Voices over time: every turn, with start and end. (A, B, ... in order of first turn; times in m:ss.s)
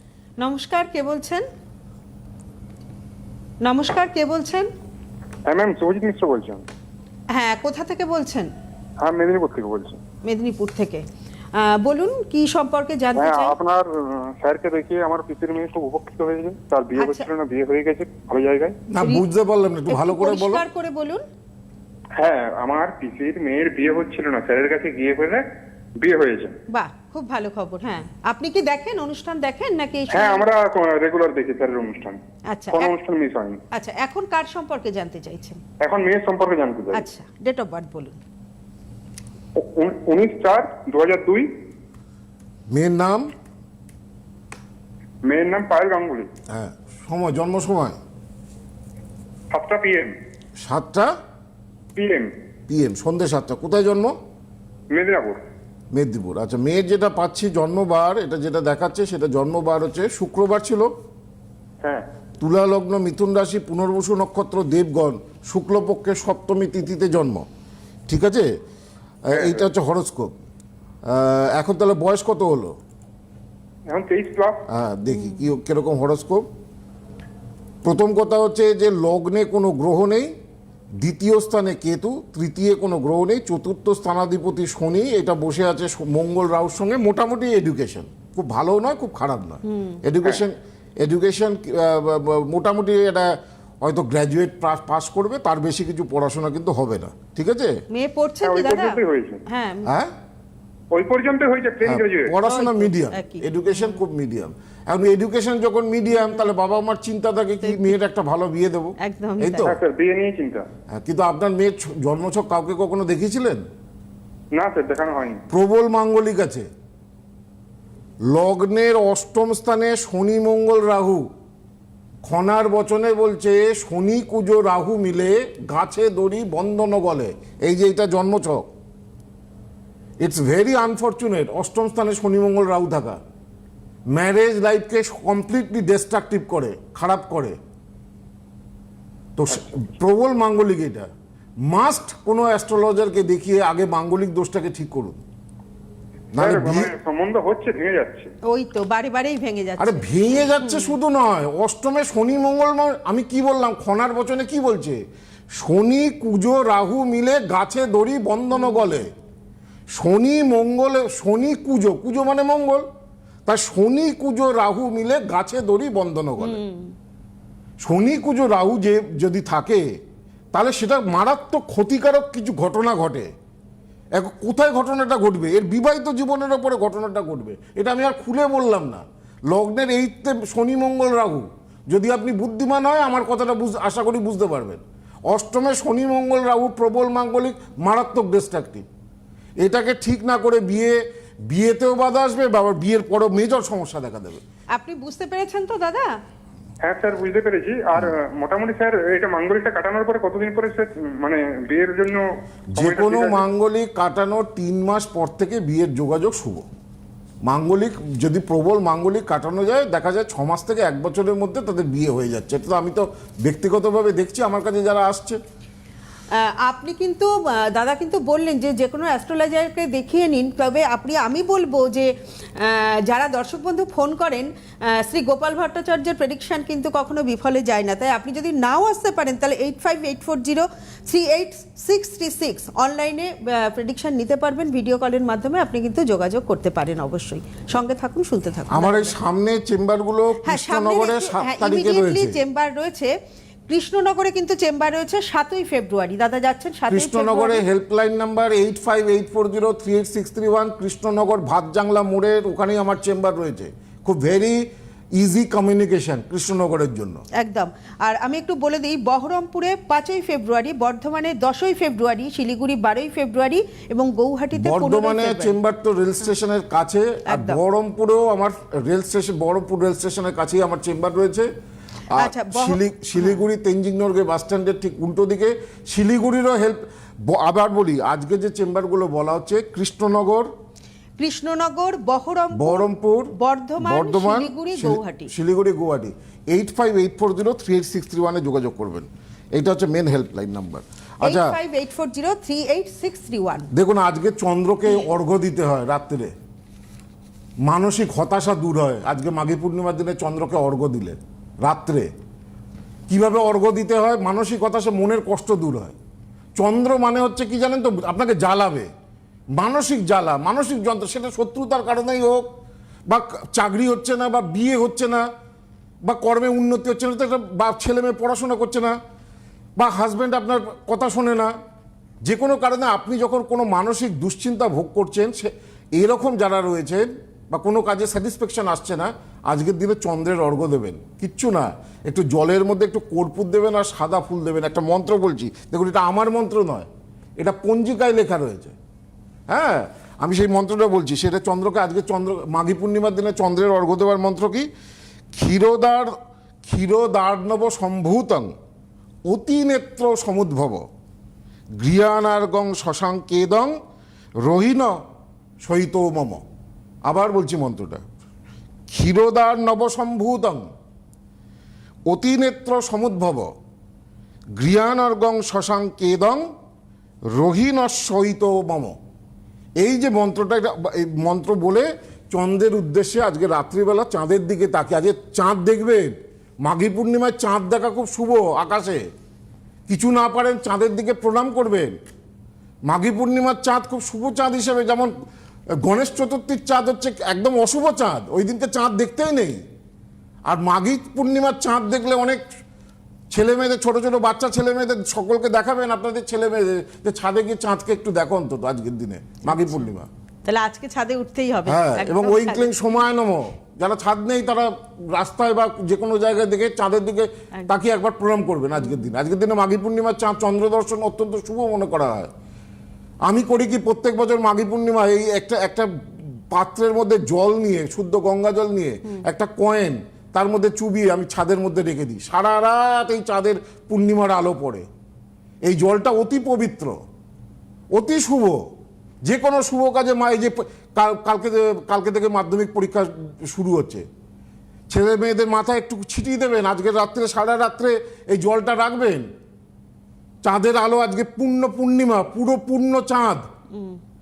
0:00.4-0:01.4 A
0:03.6-0:04.7 A
0:05.4-0:06.6 B
0:07.3-0:08.5 A
0:09.0-0:10.0 B
0:10.2-0:11.0 A
0:11.6-0:13.6 A
0:13.1-0:18.8 B
0:17.0-0:17.3 A
0:18.9-0:20.6 C
0:19.9-0:21.2 A
0:22.2-0:25.4 B
0:26.0-0:26.6 B
0:26.7-0:30.5 A
0:30.1-0:32.2 B
0:32.5-0:32.9 A
0:32.7-0:33.6 B
0:33.7-0:35.6 A
0:35.8-0:37.0 B
0:36.9-0:38.2 A
0:39.6-0:41.5 B
0:42.7-0:43.3 C
0:45.3-0:46.3 B
0:46.5-0:48.0 C
0:49.5-0:50.1 B
0:50.6-0:51.1 C
0:51.9-0:52.3 B
0:52.7-0:54.2 C
0:54.9-0:55.4 B
0:55.9-1:00.9 C
1:02.4-1:07.4 C
1:08.1-1:08.5 C
1:09.3-1:10.3 C
1:09.3-1:09.7 B
1:11.1-1:12.8 C
1:13.9-1:14.6 B
1:14.7-1:16.4 C
1:17.8-1:20.3 C
1:21.0-1:37.7 C
1:29.7-1:30.0 A
1:37.9-1:39.9 A
1:38.4-1:39.4 B
1:39.8-1:40.1 C
1:40.9-1:42.3 B
1:41.8-1:49.8 C
1:42.4-1:44.0 A
1:47.6-1:48.0 A
1:49.0-1:49.7 A
1:49.6-1:50.6 B
1:50.9-1:53.6 C
1:54.5-1:55.4 B
1:55.5-1:56.7 C
1:58.3-2:01.3 C
2:02.2-2:08.7 C
2:10.2-2:13.2 C
2:14.1-2:17.6 C
2:19.4-2:21.1 C
2:21.7-2:25.2 C
2:26.3-2:26.9 C
2:26.3-2:28.3 B
2:28.5-2:30.0 A
2:29.8-2:35.0 C
2:30.6-2:30.9 A
2:35.6-2:39.1 C
2:38.6-2:38.9 A
2:39.9-2:42.8 C
2:43.4-2:46.6 C
2:46.4-2:46.9 A
2:47.8-2:49.8 C
2:50.5-2:53.3 C
2:54.2-3:08.8 C
3:09.6-3:14.4 C
3:14.7-3:16.1 A
3:16.8-3:22.2 B
3:22.8-3:23.5 B
3:22.8-3:26.6 C
3:27.4-3:35.4 C
3:36.4-3:59.2 A
3:58.7-4:02.4 C
4:00.4-4:03.1 A
4:03.7-4:07.6 A
4:06.9-4:14.6 C
4:15.2-4:17.2 C
4:17.4-4:25.6 A
4:24.6-4:31.5 C
4:27.3-4:27.6 A
4:32.1-4:40.5 C
4:32.2-4:33.4 A
4:41.2-4:45.3 A
4:42.5-4:51.6 C
4:51.2-4:53.7 A
4:53.7-4:56.3 C
4:57.6-5:02.1 C
5:03.1-5:05.9 C
5:06.6-5:08.9 C
5:09.6-5:12.4 C
5:13.1-5:15.2 C
5:16.0-5:18.9 C
5:19.8-5:21.5 C
5:22.2-5:36.9 C
5:37.4-5:38.8 C
5:39.5-5:44.7 C
5:45.3-5:46.1 C
5:46.6-5:48.5 C
5:49.3-5:50.8 C
5:51.8-5:53.7 C
5:54.4-5:55.0 C
5:55.6-5:56.4 C
5:57.0-5:58.0 C
5:58.9-6:00.7 C
6:02.1-6:03.5 C
6:04.6-6:06.4 C
6:07.3-6:09.0 C
6:09.8-6:19.1 C
6:19.9-6:21.9 C
6:22.9-6:25.1 C
6:25.8-6:29.6 C
6:30.5-6:32.4 C
6:33.3-6:40.1 C
6:39.5-6:39.8 A
6:40.4-6:42.7 A
6:41.7-6:52.3 C
6:53.3-6:55.9 C
6:56.5-7:04.9 C
7:05.6-7:07.0 C
7:07.9-7:08.6 C
7:09.2-7:14.1 C
7:14.9-7:19.3 C
7:20.4-7:23.4 C
7:23.7-7:24.0 A